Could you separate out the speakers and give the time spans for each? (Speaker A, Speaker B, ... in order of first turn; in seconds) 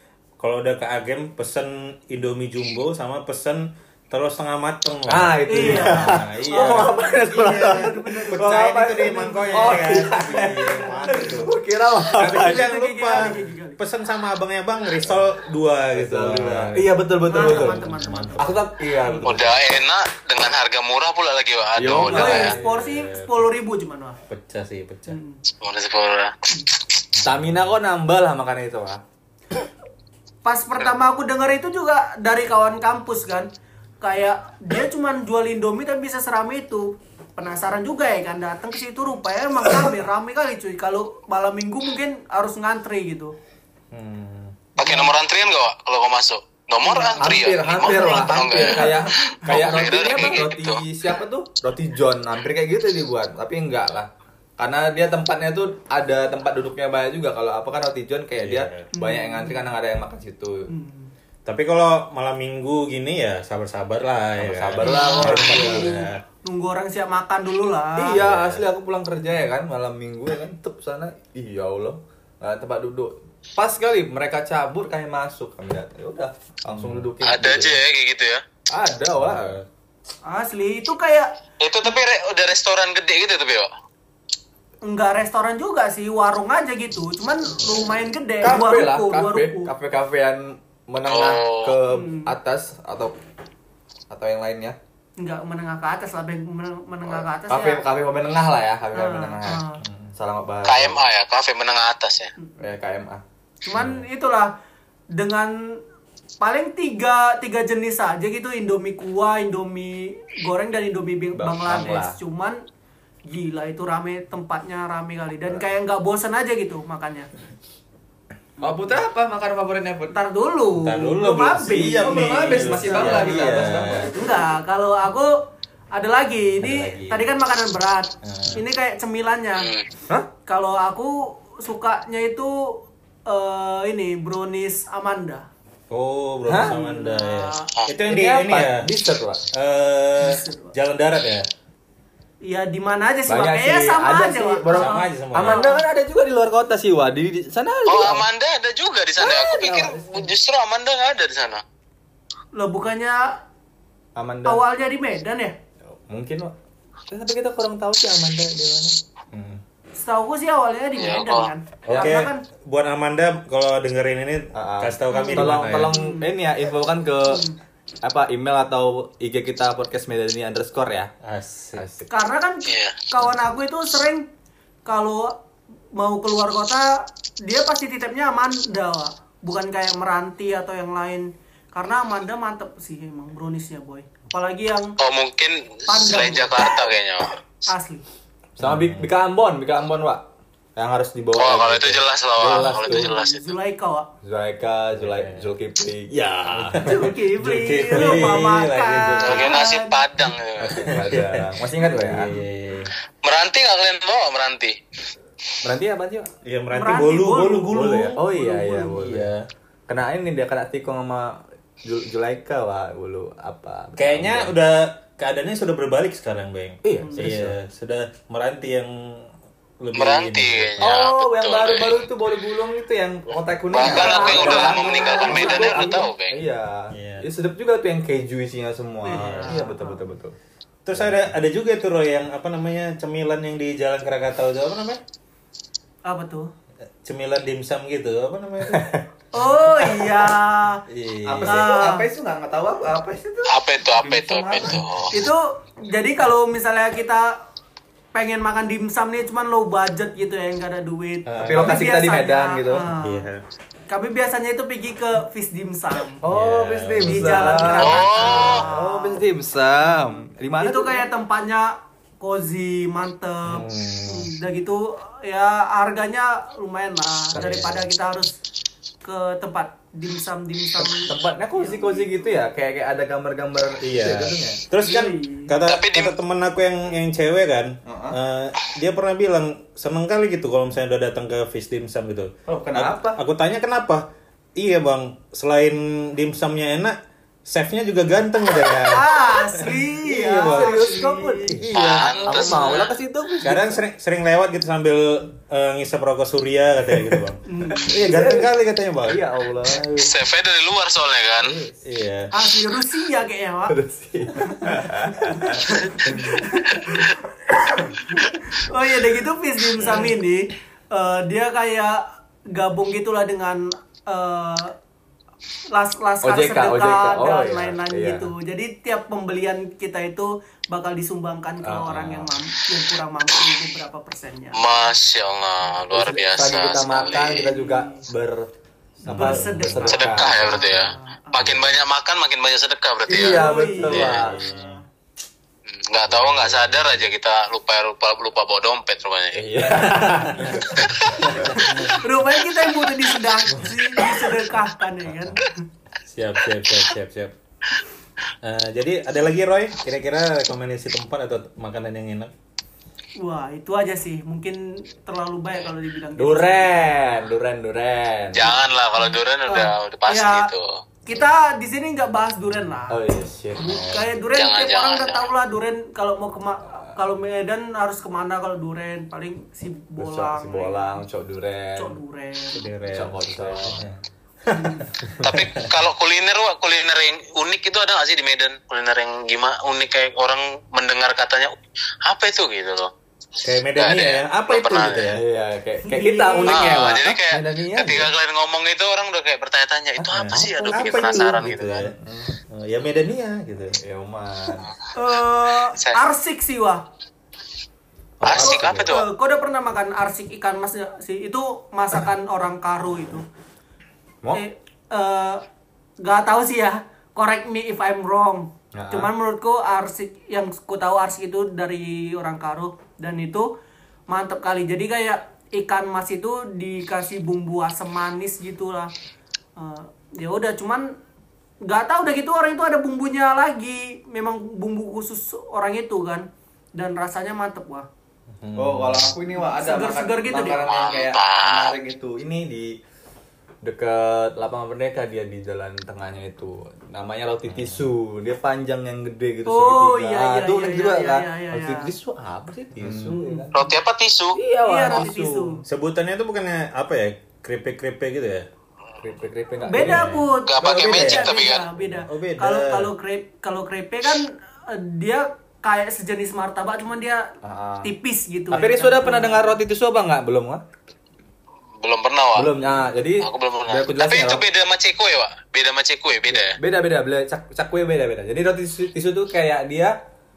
Speaker A: 0.4-11.5, 12.2-18.6, 22.0-23.4, 24.3-25.2, 27.1-27.7, 43.9-44.6, 58.4-58.9, 61.5-66.2, 68.2-68.7, 76.7-77.1, 79.2-79.7, 99.8-100.1, 103.7-104.0, 120.8-124.1, 126.6-127.3, 128.2-128.6, 135.9-138.9, 139.5-141.5, 144.7-145.7, 159.3-159.6, 161.9-166.0, 171.2-171.8, 188.6-189.1, 194.9-195.5, 196.1-199.6, 200.7-202.9, 206.4-208.2, 209.0-209.5, 214.0-219.2, 219.8-221.0, 224.3-224.9, 226.9-227.3, 229.1-229.7, 230.9-235.0, 237.0-238.9, 239.7-240.2, 240.9-241.7, 251.3-251.9, 252.8-253.4, 256.2-258.7, 263.5-264.3, 267.3-267.9, 273.8-284.0, 284.6-286.9, 287.5-289.7, 290.4-290.8, 291.5-292.2, 293.4-300.1, 301.8-302.3, 309.8-310.1, 329.1-330.8, 331.4-331.8, 333.9-334.8, 336.1-337.1, 340.4-342.0, 346.1-347.3, 348.4-352.3, 363.8-364.1, 372.5-375.7, 383.4-385.2, 390.0-391.9, 392.5-393.8, 398.2-399.0, 428.4-429.1, 437.5-437.8, 442.8-443.2, 445.6-448.5, 449.8-452.9
Speaker B: 5.1-12.6, 15.9-17.8, 18.4-19.6, 21.8-22.6, 27.2-29.0, 47.2-60.7, 64.4-66.0, 68.0-77.8, 78.7-79.6, 88.4-93.2, 94.1-94.8, 97.1-99.6, 100.2-101.0, 102.6-103.2, 111.4-112.2, 118.6-120.2, 121.7-124.2, 136.5-136.8, 138.1-139.4, 143.3-148.3, 149.2-150.3, 154.2-154.6, 155.9-156.5, 157.1-159.0, 164.5-167.4, 168.0-171.1, 171.8-172.1, 188.6-193.1, 194.2-197.0, 197.9-198.3, 200.6-202.3, 205.6-206.3, 207.7-209.3, 209.9-214.5, 216.8-217.6, 220.8-230.3, 230.9-231.3, 238.7-239.1, 241.3-244.8, 251.4-252.8, 256.2-261.1, 270.8-274.6, 277.9-278.2, 282.5-283.2, 290.1-293.8, 296.9-298.5, 299.0-299.9, 301.4-301.8, 303.7-307.0, 309.8-310.1, 316.2-318.3, 321.6-322.4, 325.9-328.5, 329.0-330.7, 333.1-334.4, 339.4-341.9, 356.2-358.6, 362.9-363.9, 370.0-372.0, 372.9-374.0, 385.1-388.1, 390.3-390.8, 392.0-392.3, 393.8-394.7, 408.7-409.1, 428.6-432.8, 433.6-443.6, 444.4-445.6, 449.0-450.2, 457.4-457.9, 458.5-460.6, 462.4-464.4, 466.3-470.0
Speaker C: 5.5-11.4, 12.2-13.8, 17.3-18.4, 19.0-19.3, 22.1-24.2, 25.1-25.4, 30.4-33.5, 34.0-43.3, 44.8-45.1, 46.8-49.4, 59.0-59.7, 60.7-61.1, 64.8-68.2, 80.3-81.3, 84.8-89.7, 91.9-92.3, 95.2-97.8, 98.9-99.8, 103.6-104.5, 105.1-105.5, 106.4-112.6, 113.3-117.3, 120.1-125.3, 125.9-129.7, 130.5-135.5, 136.6-137.7, 140.2-140.7, 142.4-145.8, 152.6-153.3, 154.5-155.6, 160.0-162.4, 165.1-166.3, 167.3-167.6, 172.1-174.3, 174.9-175.4, 175.9-185.0, 185.9-186.8, 187.7-188.0, 192.5-194.1, 196.8-200.0, 206.7-207.8, 208.3-209.0, 217.0-217.3, 223.8-226.0, 229.1-230.0, 236.1-236.5, 239.3-240.8, 241.4-242.1, 245.1-247.3, 248.1-253.3, 253.9-256.2, 257.0-259.2, 259.9-268.3, 269.0-272.3, 274.8-275.6, 288.8-291.6, 292.2-292.8, 297.5-298.0, 302.3-303.8, 304.4-304.7, 305.6-307.2, 308.1-312.0, 312.5-314.8, 315.7-324.6, 327.5-328.0, 329.1-331.5, 333.1-334.8, 341.5-345.5, 353.2-357.0, 359.0-360.5, 361.1-363.0, 363.6-371.0, 371.8-372.7, 374.5-374.9, 385.9-386.6, 394.9-396.8, 398.4-403.2, 404.3-405.4, 406.0-413.5, 414.1-418.9, 419.6-420.9, 421.6-427.9, 429.3-430.7, 439.5-441.9, 443.1-443.8, 444.6-445.6, 449.7-457.2, 457.8-459.6
Speaker D: 19.2-22.6, 25.6-26.3, 44.8-50.8, 77.2-78.4, 81.6-83.7, 91.1-91.8, 100.7-102.3, 129.6-129.8, 147.9-151.6, 161.0-161.5, 172.7-172.9, 185.0-187.4, 191.3-193.6, 199.2-200.9, 203.2-204.8, 219.9-222.1, 223.7-226.4, 243.5-245.2, 257.8-258.6, 275.6-276.2, 291.7-292.9, 300.0-301.5, 324.6-327.5, 329.9-334.3, 335.7-339.8, 358.3-360.8, 364.3-365.3, 375.2-381.5, 382.1-382.9, 383.8-385.1, 386.4-391.9, 395.7-396.0, 398.2-399.1, 430.6-431.8, 443.5-444.4, 450.5-451.7, 461.8-462.5, 463.2-466.6